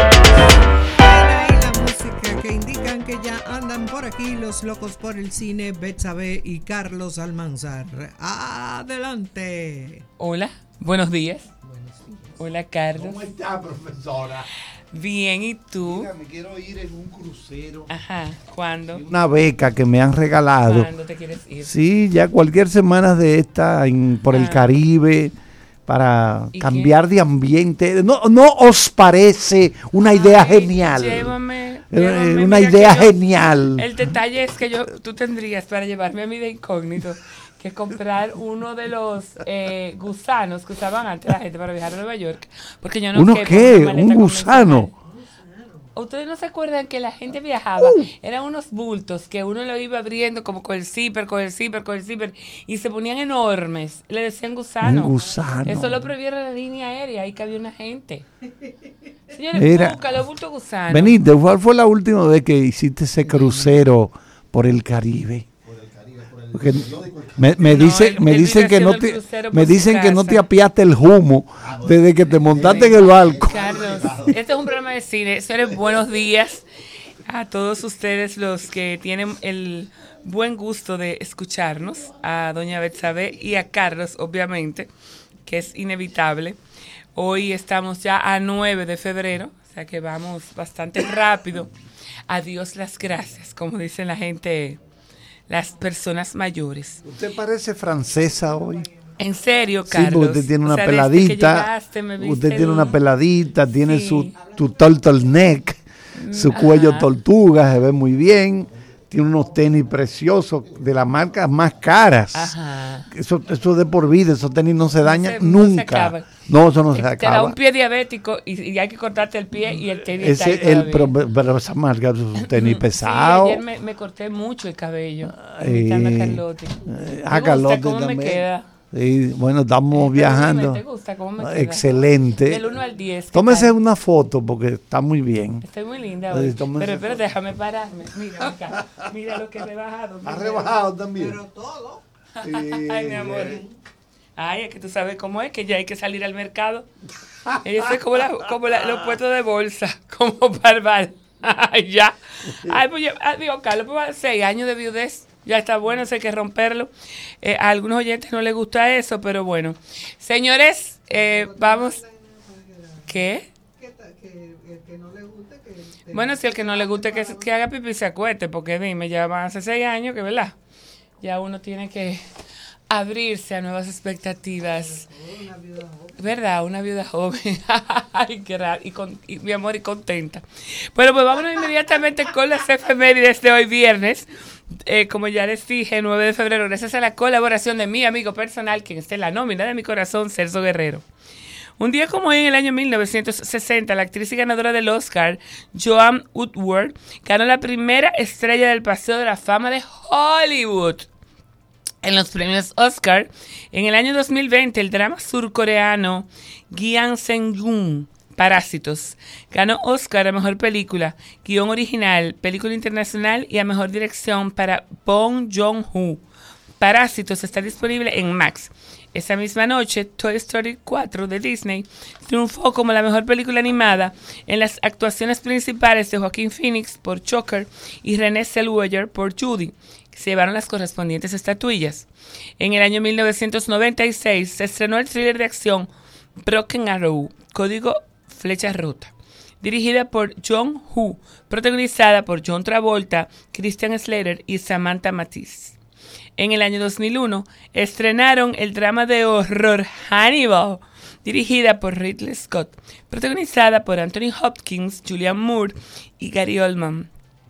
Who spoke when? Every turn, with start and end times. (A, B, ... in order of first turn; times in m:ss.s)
0:00.4-0:10.0 A
0:10.2-0:11.5 B
0:11.6-0:12.0 A
0:12.4-0:13.3 B
0:12.9-0:14.5 C
0:14.9-0:16.1 B
0:15.8-0:17.9 C
0:17.9-0:19.0 B
0:18.9-0:20.9 C
0:20.6-0:21.7 B
0:21.6-0:25.3 C
0:24.3-0:24.7 B
0:25.8-0:31.3 C
0:26.5-0:26.9 B
0:30.1-0:33.2 B
0:31.9-0:33.9 C
0:33.7-0:44.9 B
0:43.1-0:44.9 C
0:45.1-0:45.9 A
0:45.9-0:58.2 B
0:47.8-0:48.1 C
0:54.8-0:56.0 C
0:59.3-1:01.2 B
0:59.5-1:00.0 C
1:00.9-1:05.5 C
1:06.3-1:14.4 C
1:07.6-1:10.4 B
1:12.5-1:16.6 B
1:17.2-1:24.9 B
1:25.4-1:26.6 B
1:27.1-1:31.7 B
1:32.3-1:34.8 B
1:35.5-1:37.0 B
1:37.0-1:38.9 C
1:38.2-1:38.9 A
1:39.2-1:43.0 B
1:39.9-1:52.6 C
1:43.8-1:44.4 B
1:46.2-1:47.1 B
1:52.3-1:53.1 B
1:53.1-1:57.6 C
1:55.0-1:56.3 B
1:56.9-2:01.2 B
2:00.1-2:03.6 C
2:02.4-2:06.8 B
2:05.2-2:10.8 C
2:07.3-2:08.7 B
2:09.9-2:13.7 B
2:11.4-2:12.7 C
2:13.3-2:15.6 C
2:15.6-2:20.7 B
2:16.3-2:17.2 C
2:20.2-2:21.4 C
2:21.1-2:22.0 A
2:22.4-2:23.6 B
2:22.4-2:23.6 C
2:23.4-2:23.7 A
2:24.4-2:26.9 B
2:27.6-2:36.9 B
2:37.4-2:42.0 B
2:41.1-2:47.5 A
2:43.1-2:43.5 B
2:46.1-2:50.6 B
2:51.2-2:52.2 B
2:52.9-2:55.0 B
2:54.7-2:56.4 A
2:56.2-3:04.3 B
3:04.8-3:11.0 B
3:11.8-3:21.1 B
3:22.0-3:36.2 B
3:36.8-3:52.1 B
3:52.6-3:55.9 B
3:56.4-4:05.8 B
4:06.4-4:17.1 B